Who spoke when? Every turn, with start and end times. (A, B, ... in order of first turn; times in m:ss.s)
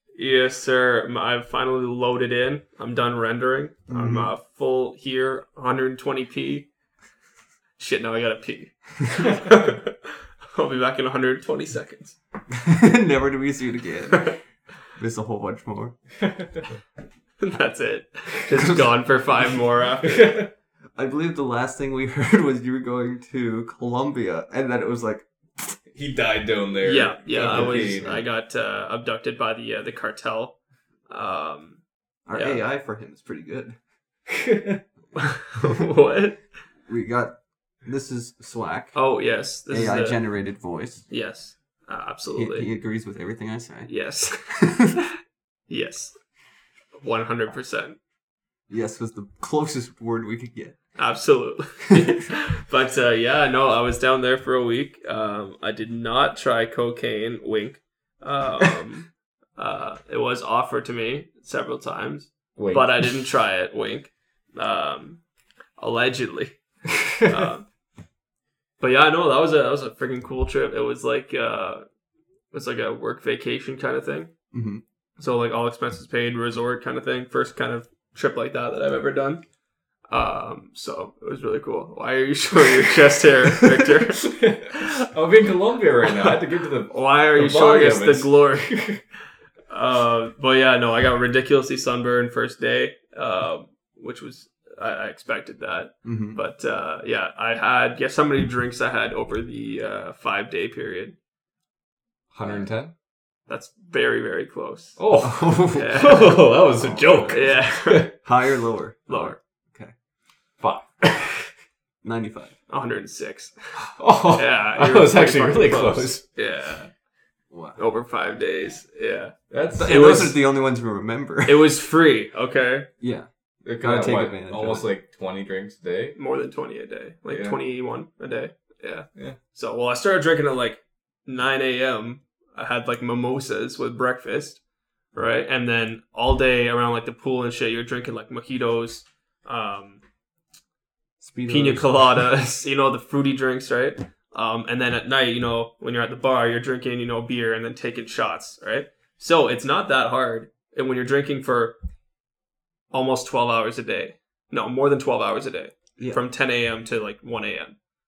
0:00.2-0:06.7 A
0:03.9-0:04.3 B
0:07.8-0:12.2 A
0:12.5-0:14.4 B
0:14.9-0:16.0 B
0:16.2-0:16.5 C
0:17.4-0:20.4 A
0:20.0-0:20.5 C
0:21.0-0:25.8 B
0:25.9-0:28.2 C
0:26.8-0:30.6 A
0:27.3-0:28.2 B
0:31.1-0:31.8 A
0:32.3-0:33.8 B
0:32.3-0:32.6 A
0:34.3-0:34.8 C
0:35.2-0:36.4 A
0:36.9-0:39.0 B
0:39.0-0:40.2 A
0:39.7-0:41.1 B
0:41.1-0:42.7 A
0:42.3-0:43.9 B
0:43.9-0:45.1 A
0:44.5-0:45.0 B
0:45.7-0:46.2 A
0:47.0-0:48.0 A
0:48.7-0:50.8 B
0:51.0-1:05.2 A
0:51.9-0:52.3 B
1:02.6-1:03.0 C
1:05.8-1:06.6 A
1:07.2-1:07.7 A
1:08.8-1:11.8 A
1:12.5-1:14.3 A
1:14.5-1:14.8 B
1:15.2-1:19.4 A
1:20.1-1:25.1 A
1:24.2-1:29.0 C
1:26.0-1:29.0 A
1:29.7-1:41.2 A
1:36.0-1:36.4 B
1:42.3-1:42.9 C
1:43.5-1:45.1 A
1:45.0-1:48.1 C
1:45.2-1:46.1 B
1:45.7-1:46.4 A
1:46.8-1:47.4 B
1:47.3-1:48.2 A
1:48.2-1:49.9 B
1:49.1-1:49.4 A
1:50.6-1:51.5 C
1:52.0-1:52.6 B
1:52.7-1:53.6 A
1:53.8-1:56.2 C
1:54.3-1:56.9 A
1:57.5-1:57.8 B
1:57.8-1:59.4 A
1:59.5-2:00.4 C
1:59.8-2:01.7 B
1:59.9-2:00.4 A
2:01.4-2:02.9 A
2:03.0-2:03.3 B
2:03.6-2:06.2 C
2:03.8-2:04.9 B
2:06.2-2:14.6 A
2:07.3-2:07.6 C
2:15.2-2:20.0 A
2:21.2-2:22.0 B
2:21.5-2:31.8 A
2:32.9-2:37.8 A